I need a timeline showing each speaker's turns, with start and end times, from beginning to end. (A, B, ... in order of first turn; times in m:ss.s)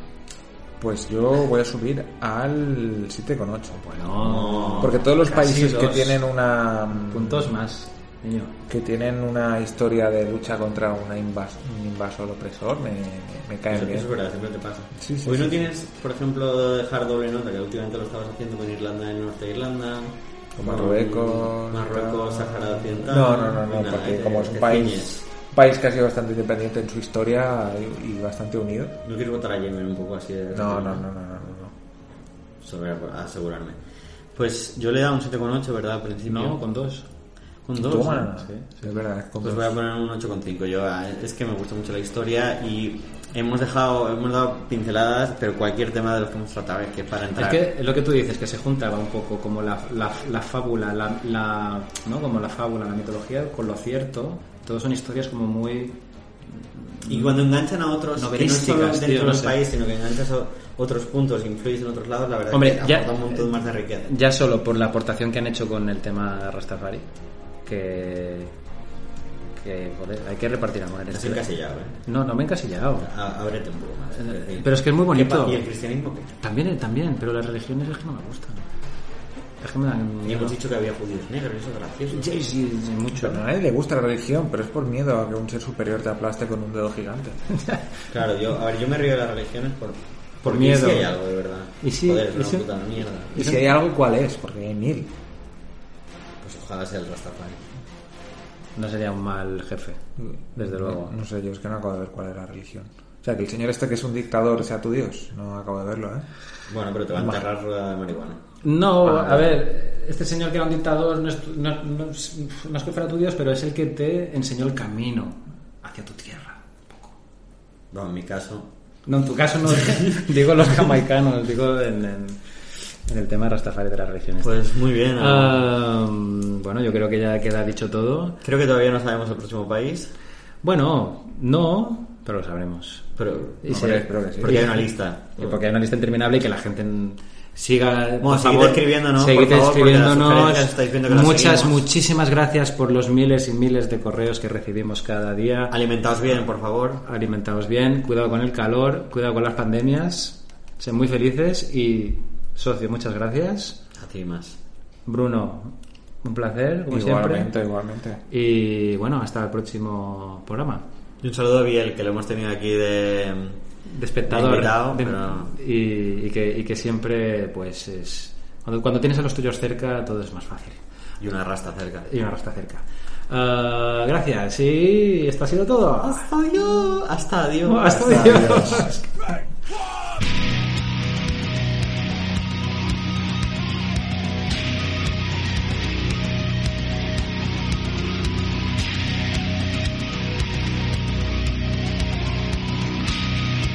0:00.8-0:03.8 A
0:03.8-0:06.2 B
0:04.2-0:05.0 C
0:04.8-0:07.5 A
0:06.9-0:08.5 B
0:08.7-0:14.1 A
0:13.7-0:25.3 C
0:15.0-0:15.6 A
0:20.6-0:29.0 A
0:29.0-0:31.0 C
0:30.5-0:31.7 A
0:32.6-0:33.8 C
0:34.3-0:36.6 C
0:36.3-0:37.1 B
0:37.6-0:38.3 C
0:37.8-0:39.7 A
0:38.3-0:38.8 B
0:39.4-0:47.6 C
0:47.4-0:56.0 B
0:56.5-0:57.4 B
0:57.1-1:04.1 C
0:58.2-0:59.6 B
1:02.5-1:03.5 B
1:04.0-1:07.1 B
1:07.6-1:08.5 B
1:09.5-1:11.4 B
1:11.1-1:12.0 C
1:12.0-1:13.1 B
1:13.0-1:16.4 C
1:14.2-1:15.6 B
1:16.4-1:18.6 B
1:19.6-1:20.5 B
1:20.2-1:22.5 C
1:22.1-1:23.4 B
1:23.1-1:27.4 A
1:28.1-1:33.3 C
1:30.4-1:31.1 B
1:31.8-1:32.7 B
1:33.3-1:33.6 B
1:33.3-1:35.1 A
1:36.4-1:37.6 C
1:38.8-1:40.0 B
1:40.2-1:46.3 A
1:40.6-1:41.1 B
1:46.7-1:48.4 C
1:48.6-1:57.1 B
1:49.0-1:49.6 C
1:57.9-1:58.7 C
1:59.0-2:04.5 B
2:04.4-2:05.6 C
2:05.2-2:08.4 B
2:08.4-2:10.1 C
2:10.6-2:13.1 B
2:13.2-2:15.6 C
2:13.6-2:25.7 B
2:13.7-2:14.6 A
2:18.2-2:21.8 C
2:25.7-2:27.0 C
2:27.0-2:33.8 B
2:34.0-2:34.6 C
2:35.0-2:37.5 B
2:36.9-2:38.2 A
2:38.3-2:40.8 B
2:41.2-2:43.6 C
2:43.8-2:50.8 B
2:44.3-2:45.5 C
2:51.2-2:52.1 C
2:52.1-2:56.3 B
2:56.0-2:58.9 C
2:57.7-2:59.1 B
2:58.1-2:58.8 A